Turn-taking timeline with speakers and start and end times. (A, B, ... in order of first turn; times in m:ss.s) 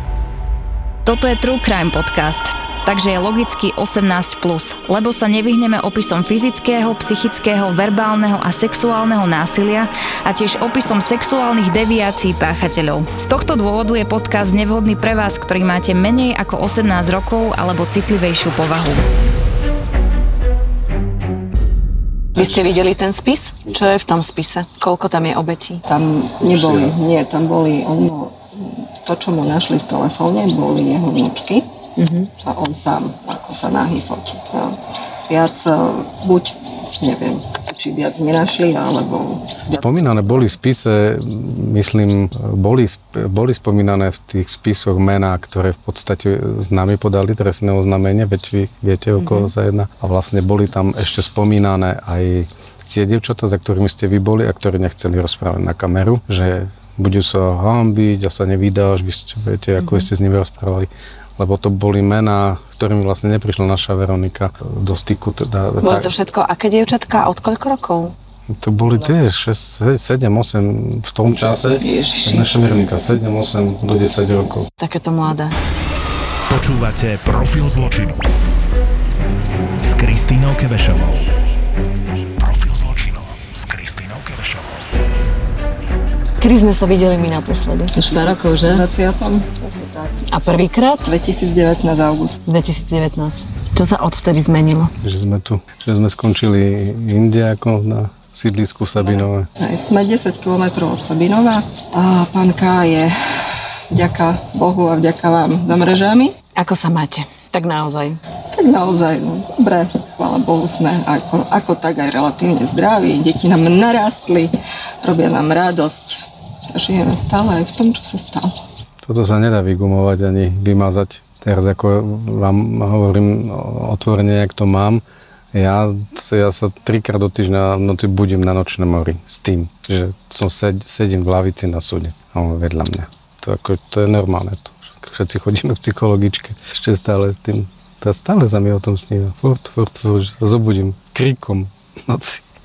0:01.0-0:19.0 A
0:22.4-0:25.8 B
0:25.9-0:31.7 C
0:32.0-0:32.3 B
0:32.4-0:34.8 C
0:35.3-0:40.0 C
0:39.8-1:06.1 D
0:49.2-0:49.5 B
0:59.8-1:00.1 B
1:05.8-1:08.1 B
1:08.5-1:14.7 D
1:11.8-1:12.5 B
1:14.8-1:15.6 B
1:16.5-1:18.3 E
1:19.8-1:21.3 E
1:22.4-1:24.8 E
1:26.4-1:28.8 B
1:28.0-1:30.3 C
1:30.3-1:31.0 B
1:31.0-1:32.4 C
1:32.5-1:34.9 B
1:35.0-1:39.5 D
1:39.6-1:46.3 C
1:46.6-1:48.2 B
1:48.5-1:58.5 C
1:59.0-2:05.0 D
2:05.5-2:22.4 D